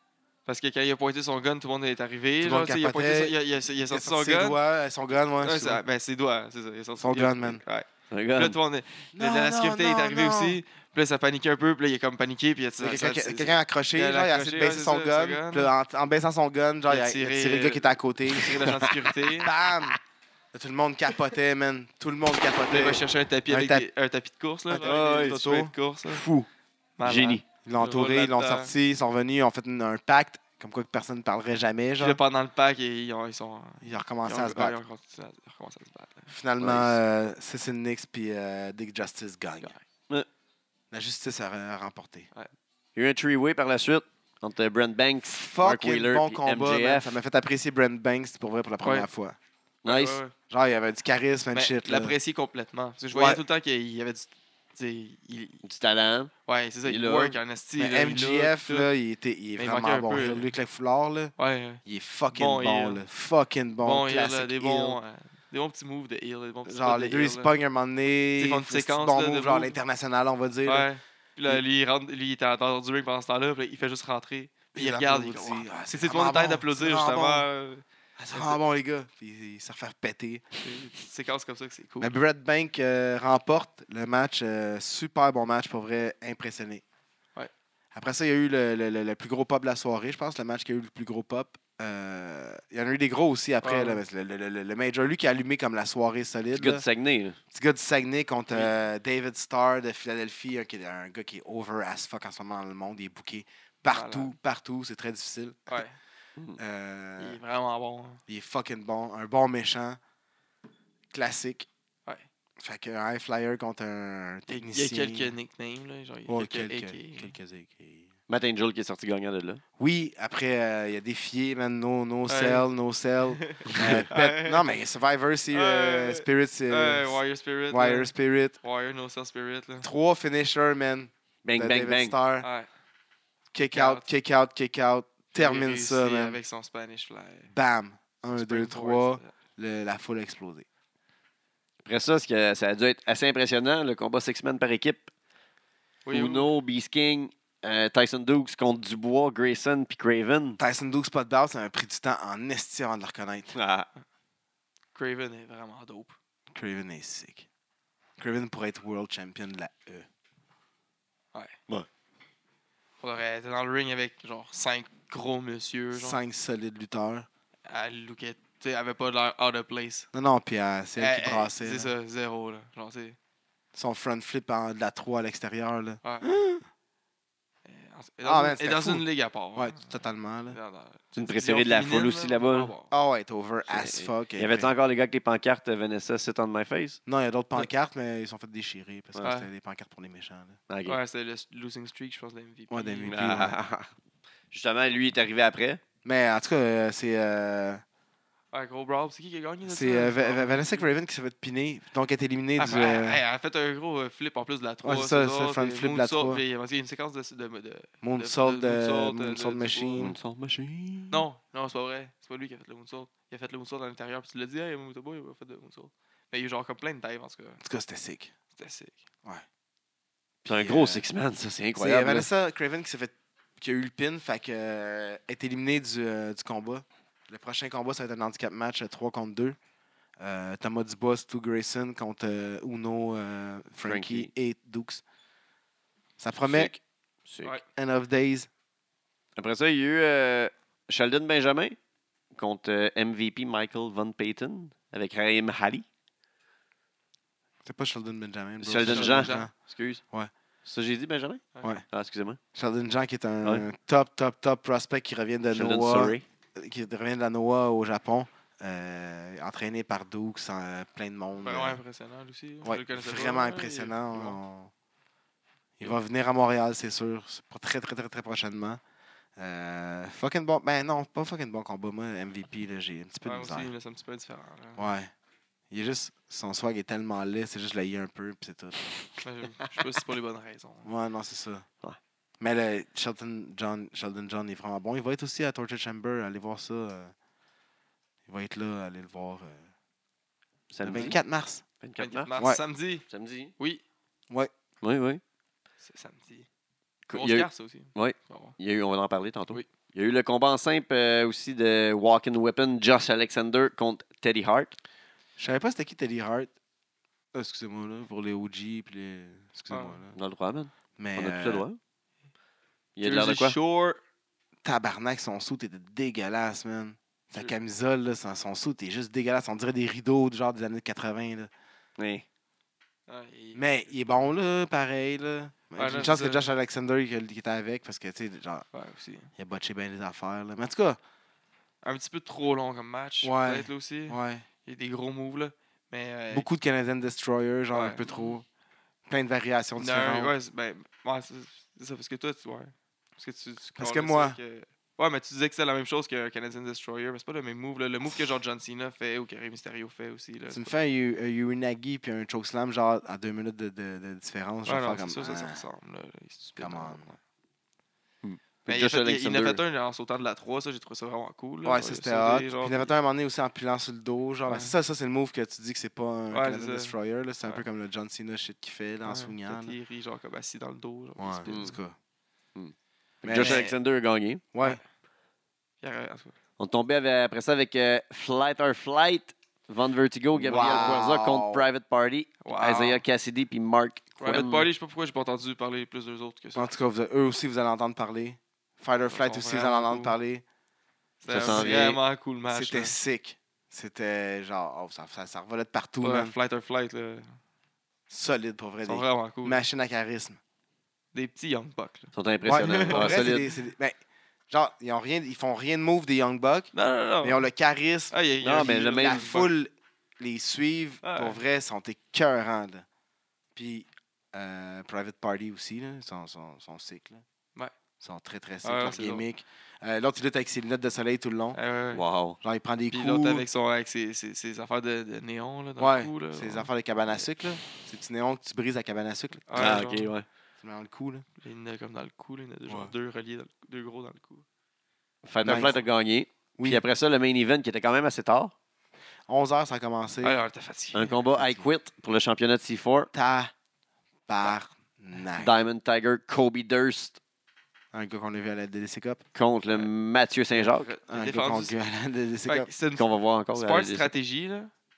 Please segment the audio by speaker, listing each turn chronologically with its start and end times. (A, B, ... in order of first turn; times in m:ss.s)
0:00.4-0:04.6 A
0:02.4-0:03.4 B
0:03.9-0:05.8 B
0:05.4-0:15.7 A
0:07.0-0:07.6 B
0:08.1-0:08.6 C
0:09.1-0:10.6 B
0:12.8-0:20.0 B
0:16.9-0:19.6 A
0:20.5-0:23.9 B
0:22.7-0:26.2 A
0:24.7-0:25.7 B
0:24.8-0:25.4 C
0:26.1-0:26.5 C
0:27.0-0:28.7 A
0:27.0-0:27.4 C
0:27.6-0:32.2 B
0:32.0-0:36.3 A
0:33.8-0:34.8 B
0:36.3-0:39.7 B
0:36.6-0:37.0 C
0:40.9-0:42.3 B
0:43.0-0:47.2 C
0:45.2-0:49.4 B
0:48.8-0:49.1 A
0:49.8-0:50.2 C
0:49.8-0:50.3 A
0:50.5-0:52.1 B
0:51.5-0:55.6 A
0:53.1-0:53.4 B
0:55.6-0:56.3 C
0:56.4-0:58.9 A
0:56.8-0:57.4 C
0:57.8-1:01.3 B
0:59.6-1:00.5 A
1:01.4-1:01.8 A
1:01.8-1:05.0 B
1:02.3-1:03.0 A
1:03.8-1:07.5 A
1:06.6-1:10.9 B
1:08.4-1:09.8 A
1:10.6-1:18.6 A
1:14.7-1:17.5 B
1:18.2-1:20.6 B
1:20.6-1:22.1 A
1:22.0-1:26.8 B
1:27.9-1:36.8 B
1:33.6-1:34.0 A
1:36.6-1:37.4 C
1:37.5-1:45.8 B
1:43.9-1:44.3 A
1:45.7-1:45.9 A
1:46.6-1:47.4 B
1:47.2-1:48.2 A
1:48.3-1:50.0 B
1:51.1-1:51.7 B
1:52.6-1:55.4 B
1:54.5-1:57.3 A
1:56.3-1:58.1 B
1:58.3-1:59.6 C
1:59.8-2:07.2 B
2:02.3-2:02.6 A
2:03.3-2:04.7 A
2:03.7-2:04.0 C
2:05.5-2:09.9 A
2:07.7-2:08.6 B
2:09.8-2:12.5 B
2:11.4-2:12.2 C
2:12.4-2:12.7 A
2:13.5-2:16.4 B
2:13.7-2:14.1 A
2:15.4-2:17.5 A
2:17.5-2:20.6 B
2:18.4-2:19.3 A
2:21.8-2:25.1 C
2:26.0-2:26.5 A
2:26.1-2:30.6 C
2:30.6-2:33.6 B
2:33.5-2:33.9 C
2:34.9-2:36.2 A
2:36.5-2:37.5 B
2:38.2-2:40.1 B
2:43.0-2:46.2 A
2:45.9-2:47.3 B
2:47.6-2:50.1 A
2:50.1-2:51.9 B
2:51.0-2:53.2 A
2:53.7-2:56.6 B
2:56.0-2:56.3 A
2:57.6-2:59.8 A
2:58.2-3:00.6 B
3:00.5-3:02.9 A
3:01.2-3:02.7 C
3:02.9-3:04.7 B
3:03.7-3:07.0 C
3:07.1-3:10.6 B
3:09.2-3:09.5 A
3:10.7-3:11.0 C
3:10.9-3:13.5 A
3:12.7-3:13.6 B
3:13.1-3:13.9 C
3:14.5-3:15.8 C
3:16.0-3:17.8 B
3:18.5-3:20.9 A
3:19.6-3:23.2 B
3:22.6-3:30.1 A
3:24.8-3:26.4 B
3:28.0-3:30.2 B
3:30.0-3:30.8 C
3:30.8-3:31.1 B
3:31.1-3:37.6 A
3:37.6-3:38.3 B
3:38.6-3:39.0 A
3:40.4-3:42.3 C
3:40.5-3:41.0 B
3:41.8-3:49.6 B
3:50.2-3:55.0 B
3:53.8-3:54.3 C
3:56.2-3:56.7 B
3:56.4-3:57.6 C
3:57.7-3:58.5 B
3:59.4-4:01.8 C
4:02.4-4:05.8 C
4:07.6-4:09.5 B
4:08.6-4:10.0 C
4:08.9-4:09.5 A
4:10.6-4:12.4 C
4:12.6-4:21.8 B
4:15.5-4:16.2 C
4:21.4-4:24.4 A
4:22.6-4:24.7 B
4:25.8-4:28.8 B
4:29.4-4:33.7 B
4:33.2-4:34.9 A
4:34.8-4:35.1 B
4:35.7-4:38.9 B
4:39.2-4:40.9 A
4:40.8-4:41.6 B
4:42.4-4:47.1 B
4:48.3-4:49.7 B
4:50.7-4:51.2 C
4:50.8-4:51.6 B
4:51.8-4:52.4 C
4:52.0-4:53.1 A
4:53.1-4:53.5 C
4:54.8-4:55.2 C
4:55.8-4:56.5 A
4:57.1-5:04.8 C
4:57.1-4:58.6 A
5:05.4-5:06.5 B
5:07.3-5:10.1 B
5:09.7-5:10.0 A
5:10.1-5:11.8 C
5:11.0-5:11.6 B
5:13.0-5:13.6 C
5:13.0-5:14.0 A
5:14.6-5:21.5 B
5:22.0-5:22.2 C
5:23.1-5:24.1 A
5:23.6-5:28.6 B
5:25.7-5:26.5 A
5:28.7-5:29.3 A
5:29.4-5:31.0 B
5:31.8-5:36.5 A
5:33.2-5:34.4 B
5:36.3-5:38.4 B
5:37.7-5:38.3 A
5:39.1-5:40.3 B
5:39.8-5:50.7 A
5:43.8-5:44.4 B
5:50.5-5:55.6 B
5:54.6-5:57.2 A
5:56.6-5:57.1 B
5:58.2-5:59.6 C
5:58.7-6:02.9 A
6:01.6-6:09.7 B
6:04.4-6:04.7 A
6:06.3-6:07.6 A
6:09.0-6:11.6 A
6:11.2-6:12.0 B
6:11.5-6:11.7 C
6:12.6-6:14.4 C
6:13.2-6:13.7 B
6:13.3-6:13.8 A
6:14.5-6:14.8 B
6:15.8-6:16.3 A
6:16.6-6:24.7 C
6:20.4-6:21.6 B
6:20.4-6:21.0 A
6:22.4-6:23.0 A
6:24.2-6:26.7 A
6:26.6-6:30.4 B
6:29.1-6:30.2 A
6:31.2-6:32.9 A
6:31.3-6:32.0 C
6:31.4-6:36.4 B
6:36.0-6:37.4 A
6:38.1-6:40.4 B
6:38.8-6:39.6 A
6:41.1-6:43.4 A
6:42.1-6:43.5 C
6:42.4-6:44.0 B
6:44.5-6:46.7 B
6:46.7-6:47.5 A
6:47.2-6:52.8 B
6:48.1-6:49.5 A
6:48.4-6:49.4 C
6:51.0-6:51.4 A
6:53.6-6:57.2 B
6:58.0-7:01.6 B
6:58.6-6:59.2 A
7:01.5-7:02.0 A
7:01.9-7:02.4 C
7:02.4-7:03.4 B
7:02.9-7:06.7 A
7:05.8-7:09.8 B
7:09.5-7:10.1 A
7:09.6-7:10.2 C
7:10.6-7:11.2 B
7:11.4-7:14.4 A
7:12.7-7:12.9 B
7:15.2-7:18.5 C
7:15.4-7:15.8 B
7:19.3-7:20.4 B
7:20.2-7:21.2 A
7:20.9-7:23.1 C
7:21.4-7:21.7 B
7:23.1-7:23.5 B
7:24.3-7:25.6 B
7:25.4-7:27.2 C
7:27.9-7:29.2 B
7:29.3-7:30.9 C
7:30.5-7:31.7 A
7:31.1-7:32.7 B
7:32.5-7:34.7 A
7:32.9-7:34.1 C